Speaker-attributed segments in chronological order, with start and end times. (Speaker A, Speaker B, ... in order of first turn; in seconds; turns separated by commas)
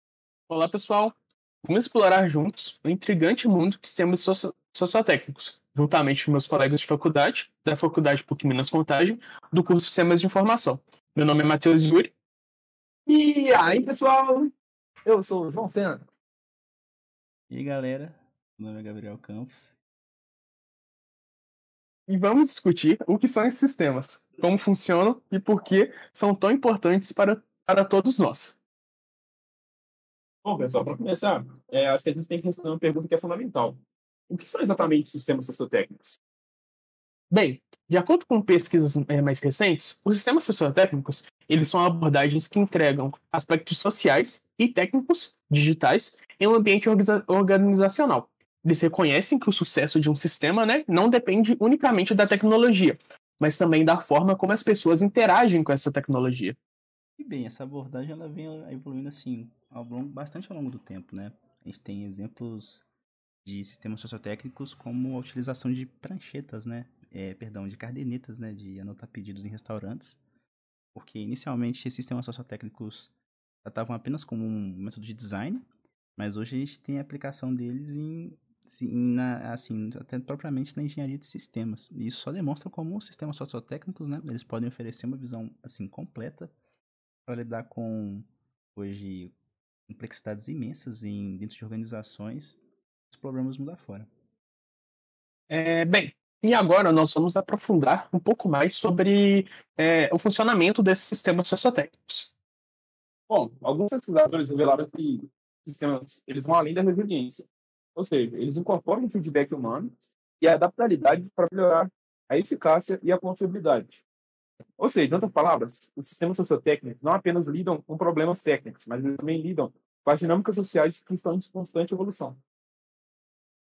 Speaker A: 0.5-12.1, Speaker B: 13.1-14.5, Speaker B: 15.0-16.0, Speaker C: 17.5-19.7, Speaker A: 22.1-28.6, Speaker B: 30.4-36.2, Speaker A: 37.3-56.6, Speaker C: 57.2-62.9, Speaker C: 63.4-70.2, Speaker C: 70.9-75.6, Speaker C: 76.2-86.5, Speaker C: 87.2-89.3, Speaker C: 89.9-94.1, Speaker A: 95.5-102.3, Speaker B: 103.3-114.0, Speaker B: 114.8-122.4